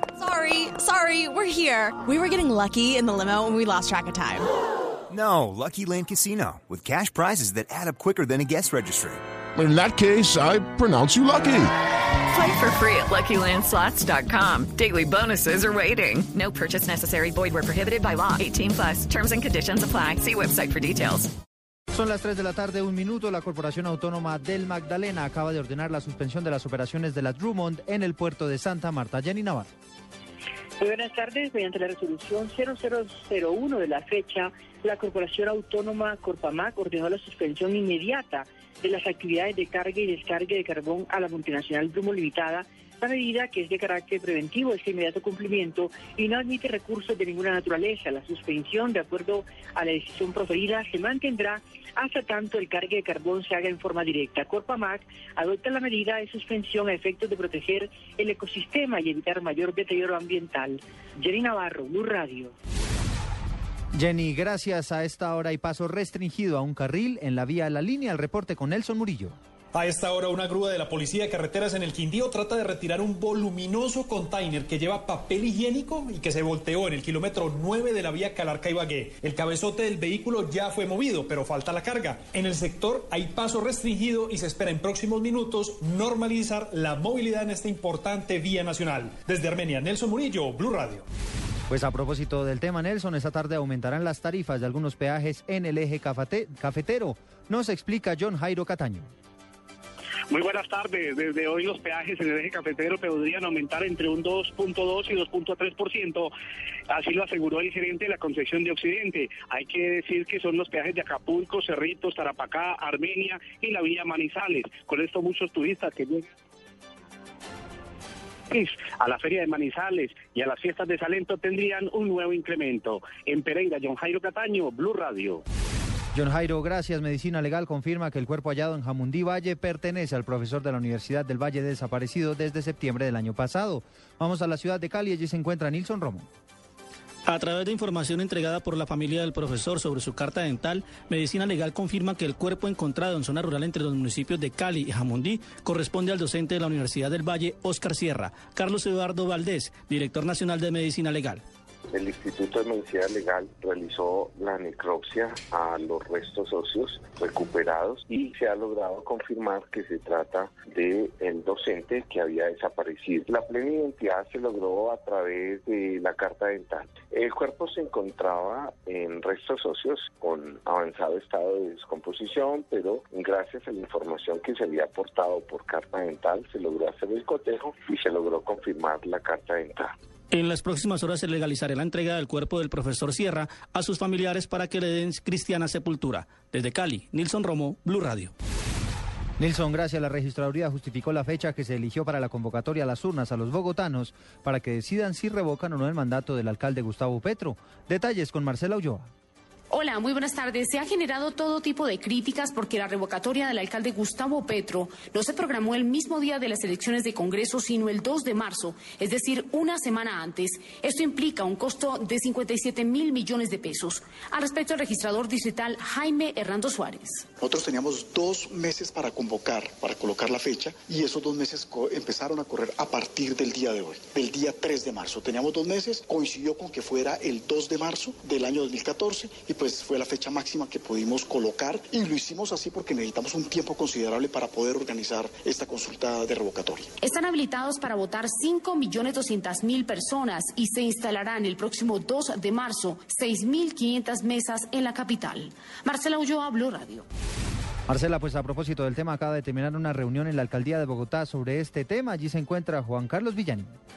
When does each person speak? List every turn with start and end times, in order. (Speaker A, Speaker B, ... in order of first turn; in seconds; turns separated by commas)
Speaker A: 0.2-4.4, Speaker B: 5.1-9.2, Speaker C: 9.6-11.7, Speaker D: 12.3-21.3, Speaker E: 21.9-29.7, Speaker F: 30.8-62.5, Speaker E: 64.0-69.4, Speaker G: 69.7-91.0, Speaker E: 91.7-99.1, Speaker H: 100.3-106.3, Speaker H: 106.9-116.2, Speaker H: 118.5-125.4, Speaker E: 126.1-136.3, Speaker I: 137.3-151.4, Speaker J: 151.9-179.9, Speaker I: 180.3-188.3, Speaker E: 189.4-199.1, Speaker K: 199.7-217.2, Speaker L: 217.4-236.9, Speaker K: 237.0-247.0, Speaker E: 247.9-253.7